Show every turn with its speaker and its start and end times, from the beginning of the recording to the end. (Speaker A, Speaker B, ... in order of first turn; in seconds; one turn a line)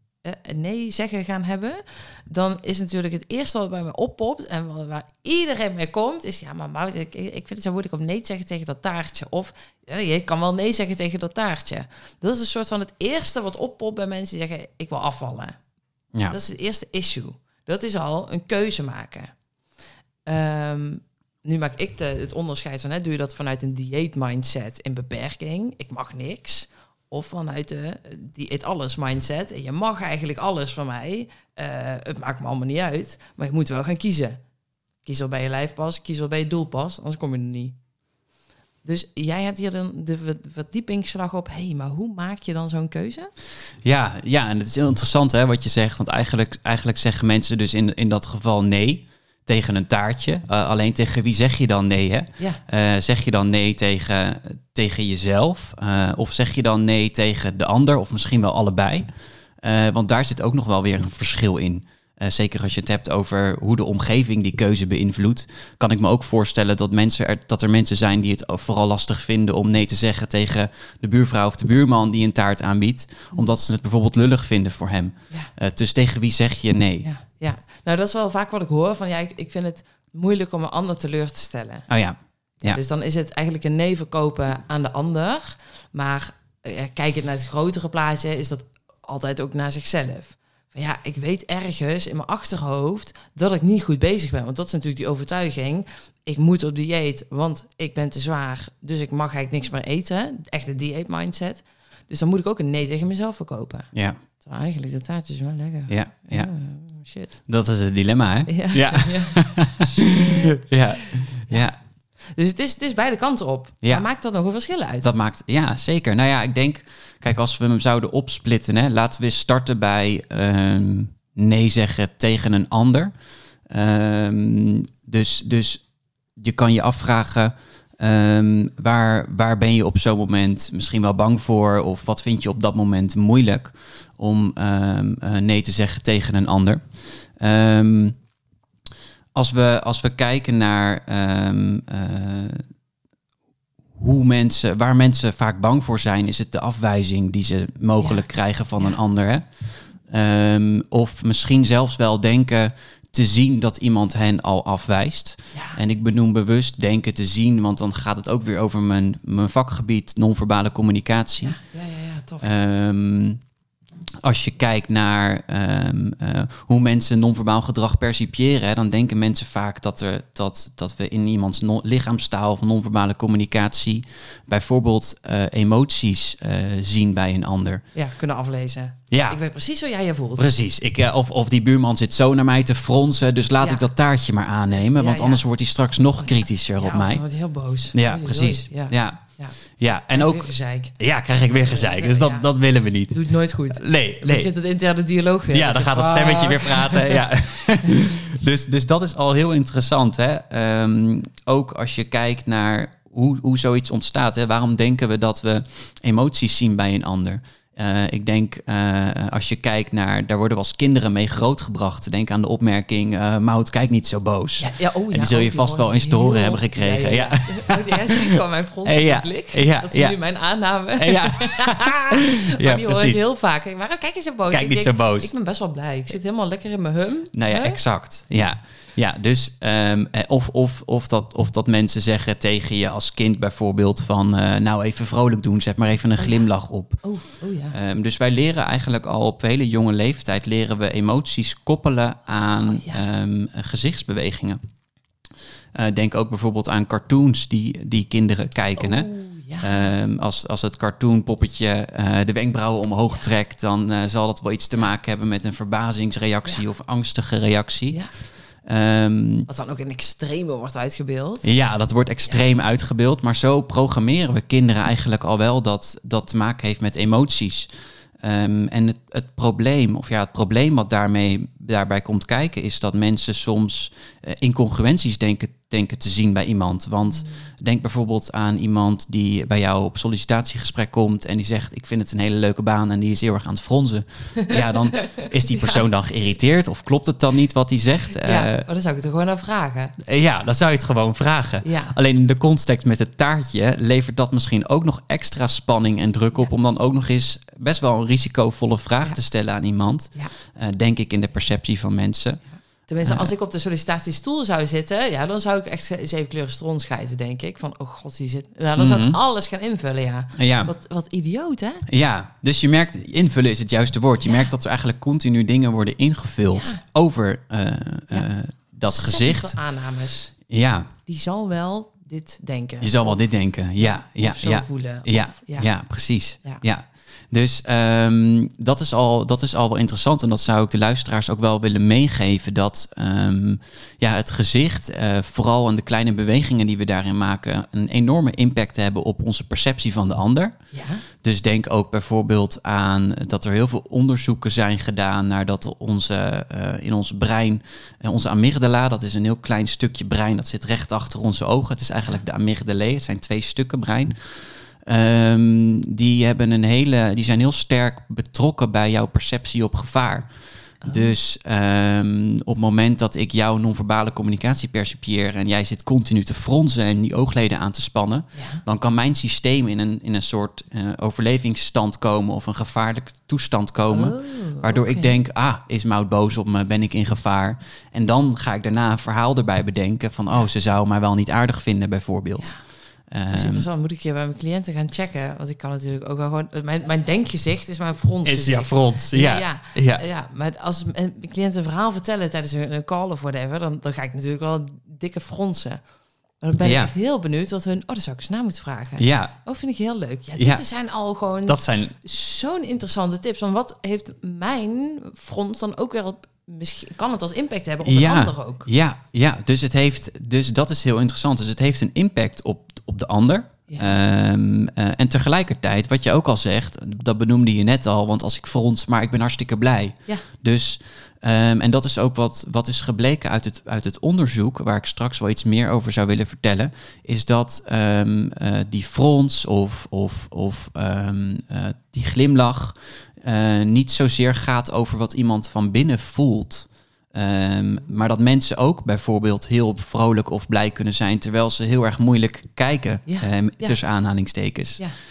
Speaker A: 0.2-15.6
Speaker A: 16.3-19.3
Speaker A: 20.3-34.4
Speaker A: 35.0-37.8
Speaker A: 38.9-43.3
Speaker B: 43.8-59.1
Speaker B: 59.6-77.1
Speaker A: 77.0-81.9
Speaker B: 81.9-82.8
Speaker A: 82.6-107.4
Speaker B: 103.9-104.2
Speaker B: 105.9-106.5
Speaker B: 107.5-111.8
Speaker A: 108.5-111.7
Speaker A: 112.3-115.1
Speaker B: 115.0-123.1
Speaker B: 123.7-125.8
Speaker B: 126.4-138.2
Speaker B: 139.3-142.6
Speaker B: 144.0-161.6
Speaker A: 155.5-155.8
Speaker A: 161.4-162.5
Speaker B: 162.4-163.4
Speaker B: 164.2-177.8
Speaker A: 177.9-180.5
Speaker B: 179.1-179.4
Speaker B: 180.4-187.2
Speaker A: 184.7-185.4
Speaker A: 186.2-189.6
Speaker B: 187.9-189.2
Speaker B: 189.8-193.2
Speaker A: 190.1-191.0
Speaker A: 191.7-192.5
Speaker A: 193.1-197.2
Speaker B: 193.7-194.5
Speaker B: 195.5-220.2
Speaker A: 214.6-227.8
Speaker B: 221.0-223.2
Speaker B: 224.5-225.3
Speaker B: 227.3-237.1
Speaker A: 236.2-236.5
Speaker A: 237.0-237.8
Speaker B: 237.7-244.6
Speaker A: 242.7-243.0
Speaker B: 245.7-249.1
Speaker A: 248.8-249.9
Speaker B: 249.6-258.0
Speaker B: 258.6-259.5
Speaker A: 259.5-261.5
Speaker B: 261.4-267.7
Speaker B: 268.2-288.7
Speaker A: 284.4-285.8
Speaker A: 288.2-289.9
Speaker B: 290.0-302.4
Speaker A: 291.6-291.9
Speaker A: 302.9-311.9
Speaker B: 303.0-303.3
Speaker B: 308.8-309.2
Speaker B: 310.4-310.7
Speaker B: 311.9-319.6
Speaker A: 316.5-316.8
Speaker A: 318.9-320.3
Speaker B: 320.5-320.9
Speaker A: 321.1-323.3
Speaker B: 322.8-340.6
Speaker A: 323.8-325.7
Speaker A: 340.7-341.0
Speaker B: 341.2-360.3
Speaker A: 360.8-361.1
Speaker B: 360.8-382.5
Speaker A: 368.4-368.6
Speaker A: 373.9-375.2
Speaker B: 383.1-383.7
Speaker A: 383.3-395.8
Speaker B: 388.2-390.0
Speaker A: 396.4-408.7
Speaker B: 396.6-396.9
Speaker B: 399.0-399.4
Speaker B: 400.4-400.6
Speaker B: 401.5-401.9
Speaker B: 407.9-444.9
Speaker A: 413.7-413.9
Speaker A: 443.1-443.8